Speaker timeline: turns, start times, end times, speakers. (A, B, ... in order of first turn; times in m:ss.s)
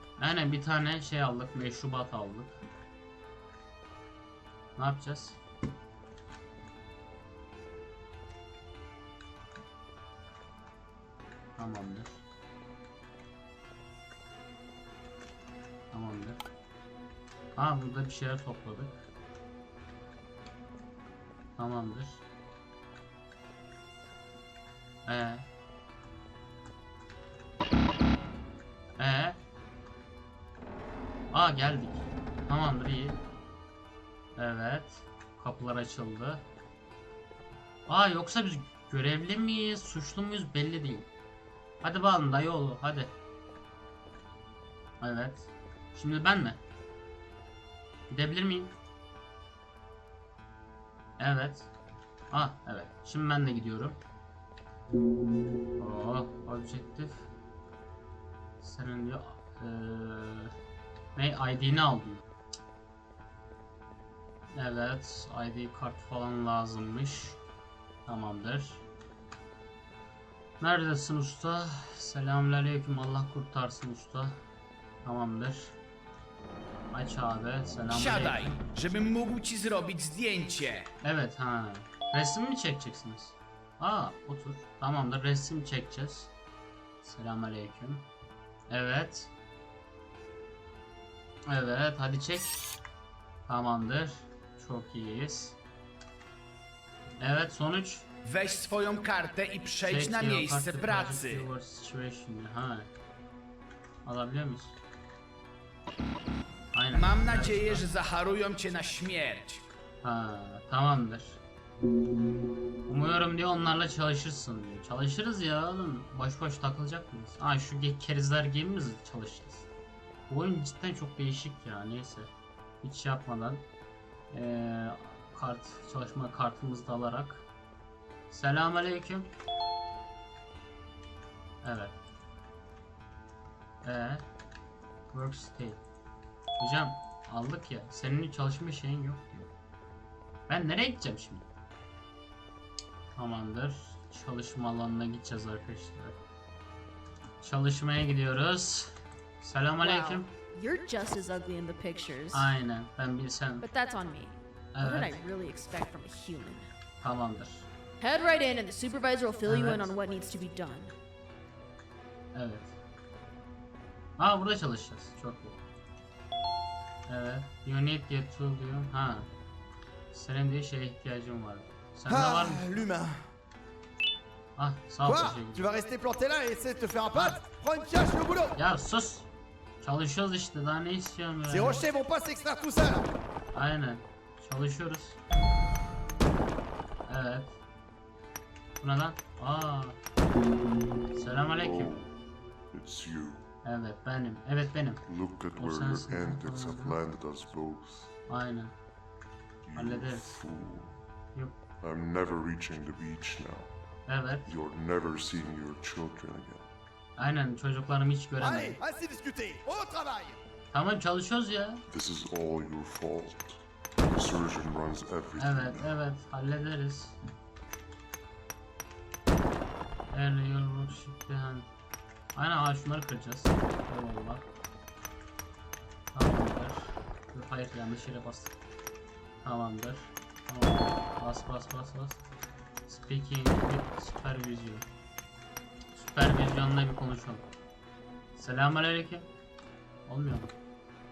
0:00.2-0:02.6 A
0:04.8-0:05.4 A
0:11.6-0:12.2 A
0:15.9-0:16.4 A
0:17.6-0:19.1 A
0:21.6-0:22.2 A
0:25.1-0:25.4 A
0:29.0-0:29.4 A
0:31.3-0:33.2 A
0:34.4-0:36.4 A
0:37.9-0:41.1 A
0:41.8-0:43.1 A
0:45.0-0:46.6 A
0:48.1-0:48.7 A
0:51.2-0:51.7 A
0:52.3-0:54.0 A
0:55.8-0:57.3 A
0:58.6-1:00.5 A
1:01.2-1:02.2 A
1:04.5-1:07.4 A
1:08.1-1:08.8 A
1:10.6-1:14.4 A
1:15.0-1:15.8 A
1:16.9-1:18.6 A
1:17.9-1:20.9 B
1:21.0-1:26.3 A
1:27.0-1:28.1 A
1:28.7-1:29.3 A
1:31.5-1:32.6 A
1:33.5-1:35.6 A
1:37.2-1:38.1 A
1:38.2-1:41.5 B
1:39.8-1:42.9 A
1:44.0-1:44.8 A
1:46.7-1:47.9 A
1:46.9-1:49.6 B
1:50.0-1:51.4 A
1:52.9-1:59.7 A
2:00.3-2:02.3 A
2:02.8-2:03.6 A
2:04.3-2:07.4 A
2:08.3-2:09.3 A
2:11.6-2:12.0 A
2:13.8-2:14.2 A
2:15.1-2:15.8 A
2:16.6-2:19.5 A
2:20.5-2:21.5 A
2:23.2-2:26.2 A
2:27.4-2:30.3 A
2:29.8-2:32.6 C
2:32.3-2:33.7 A
2:33.6-2:36.7 C
2:34.7-2:35.2 A
2:37.0-2:37.7 A
2:38.0-2:40.9 C
2:39.5-2:39.9 A
2:42.3-2:42.8 A
2:44.2-2:45.6 A
2:47.1-2:49.3 A
2:50.1-2:52.8 A
2:52.1-2:53.2 D
2:54.6-2:55.6 A
2:55.0-2:58.6 D
2:57.1-2:57.4 A
2:58.6-2:59.3 A
2:59.8-3:01.9 A
3:01.5-3:03.1 D
3:03.5-3:05.2 A
3:07.1-3:07.6 A
3:08.8-3:10.0 A
3:11.1-3:11.9 A
3:11.5-3:12.1 E
3:12.7-3:13.4 E
3:13.6-3:17.0 A
3:15.1-3:18.2 E
3:18.3-3:18.7 A
3:19.7-3:21.0 E
3:19.8-3:20.4 A
3:21.8-3:23.7 E
3:24.1-3:24.5 A
3:24.5-3:26.7 E
3:27.2-3:28.8 A
3:28.4-3:30.4 D
3:30.7-3:31.8 A
3:31.9-3:33.6 E
3:34.1-3:36.0 E
3:35.4-3:37.2 A
3:40.1-3:41.7 A
3:42.4-3:44.4 A
3:46.1-3:48.6 A
3:49.4-3:52.2 A
3:52.9-3:54.9 A
3:56.0-3:57.5 A
3:58.4-3:59.3 A
4:00.1-4:00.5 A